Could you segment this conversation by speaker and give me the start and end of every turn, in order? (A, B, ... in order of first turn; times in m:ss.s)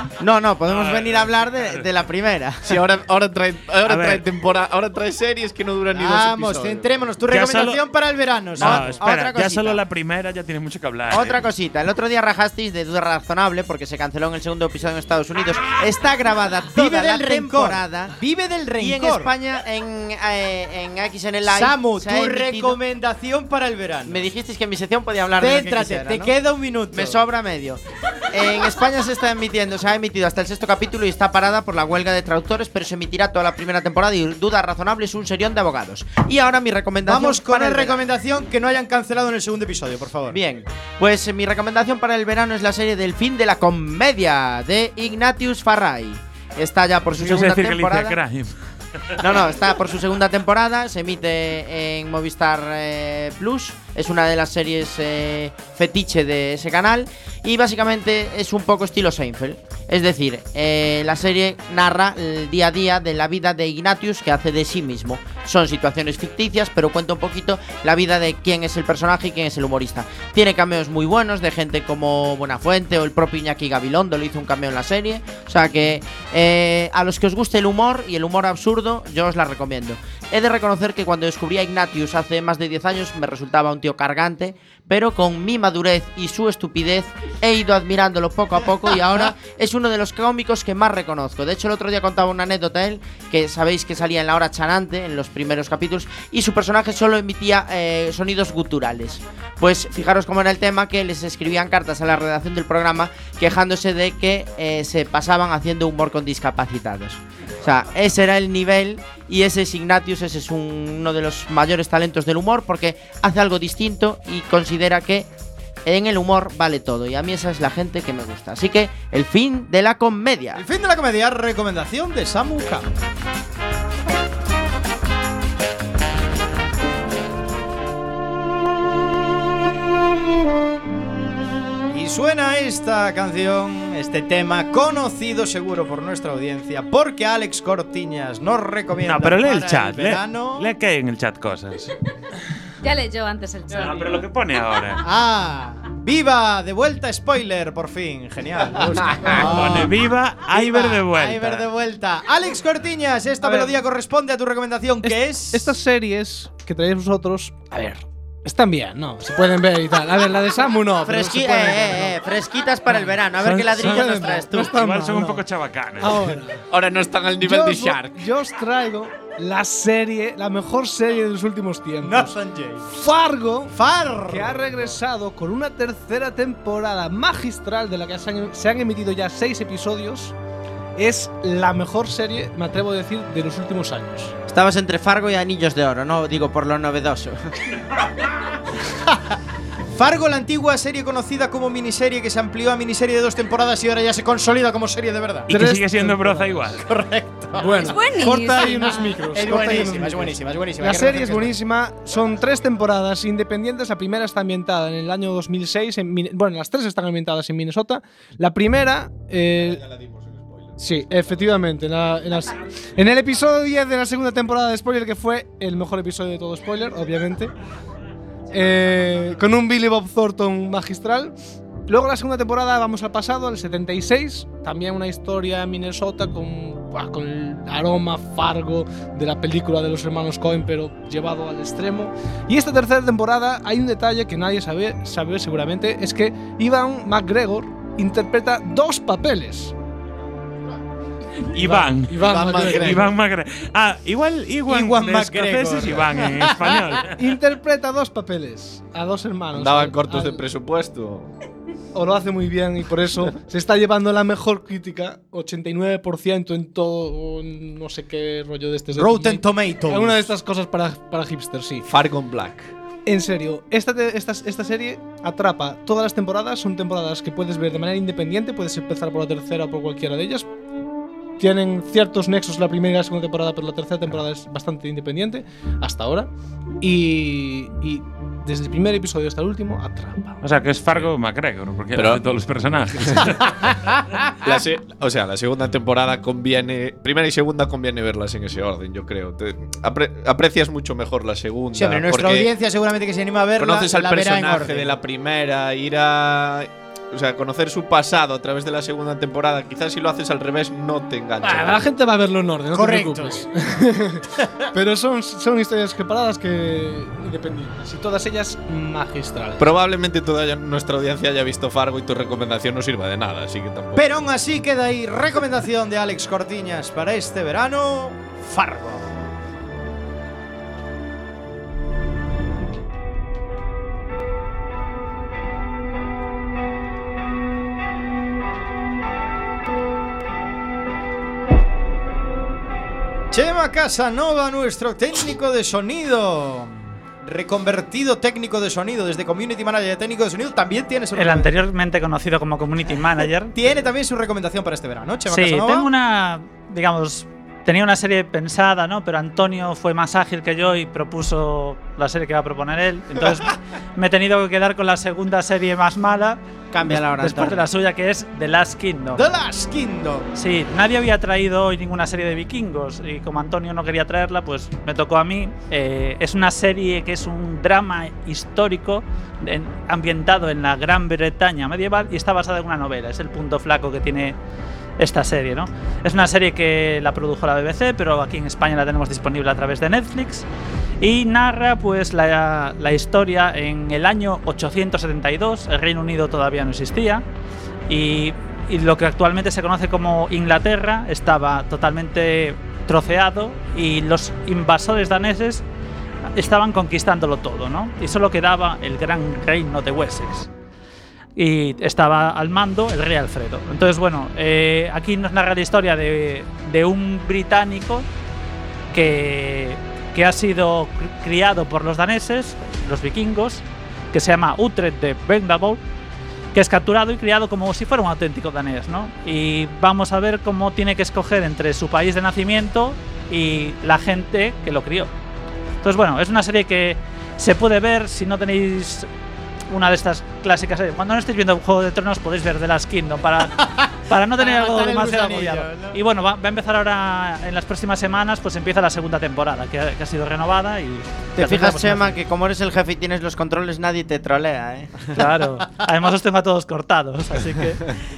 0:00.2-0:02.8 A
0:00.7-0:01.9 B
0:02.6-0:07.0 C
0:03.8-0:04.2 B
0:05.9-0:09.0 D
0:07.3-0:07.8 B
0:08.6-0:11.4 B
0:08.6-0:09.8 A
0:11.1-0:18.2 A
0:16.8-0:19.3 D
0:18.8-0:22.8 A
0:21.5-0:24.2 D
0:24.1-0:26.3 A
0:25.4-0:27.2 D
0:26.9-0:38.0 A
0:37.1-0:40.4 D
0:40.3-0:48.2 A
0:47.2-0:48.6 B
0:49.2-1:55.3 A
1:55.9-2:00.6 A
2:00.6-2:02.9 D
2:11.9-2:20.7 D
2:19.0-2:21.9 B
2:22.8-2:24.2 E
2:23.7-2:25.0 B
2:25.0-2:30.0 D
2:29.1-2:31.7 B
2:30.5-2:35.7 D
2:33.4-2:33.8 F
2:35.0-2:42.2 F
2:41.0-2:44.8 A
2:42.9-2:45.4 F
2:44.5-2:46.3 B
2:46.0-2:46.6 F
2:46.7-2:48.2 C
2:47.4-2:52.4 F
2:52.0-2:52.8 D
2:52.9-2:53.8 F
2:53.7-2:54.9 D
2:54.3-3:00.4 F
3:01.0-3:04.3 F
3:04.5-3:07.6 A
3:09.9-3:15.5 D
3:15.5-3:16.8 F
3:15.5-3:16.9 B
3:16.8-3:21.6 D
3:17.6-3:29.9 F
3:17.8-3:19.2 E
3:30.8-3:37.5 F
3:38.5-3:41.3 F
3:41.9-3:59.7 F
4:01.5-4:07.2 B
4:01.6-4:03.1 F
4:02.2-4:03.1 C
4:04.7-4:06.9 D
4:07.2-4:10.4 F
4:09.5-4:11.3 C
4:11.9-4:21.9 F
4:18.9-4:20.3 D
4:21.9-4:22.7 C
4:23.1-4:30.5 F
4:31.4-4:36.3 F
4:36.8-4:40.4 F
4:40.4-4:43.5 B
4:42.0-4:42.5 C
4:43.0-4:43.3 C
4:44.4-4:52.5 C
4:51.7-4:54.9 D
4:53.6-5:01.9 C
5:01.4-5:09.7 F
5:02.7-5:03.5 D
5:04.4-5:04.7 D
5:09.6-5:14.0 C
5:14.0-5:19.2 D
5:33.3-5:41.5 D
5:41.2-5:43.6 G
5:43.6-5:45.9 D
5:45.3-5:59.2 G
5:56.7-5:57.6 A
5:59.2-6:00.3 D
6:00.4-6:14.4 G
6:15.0-6:20.5 G
6:21.0-6:27.2 G
6:27.9-6:35.6 G
6:36.4-6:40.5 G
6:41.4-6:48.1 G
6:48.9-6:55.8 G
6:56.5-7:05.1 G
7:05.8-7:09.1 G
7:09.7-7:22.2 G
7:13.7-7:16.0 D
7:21.4-7:25.0 A
7:25.2-7:27.9 G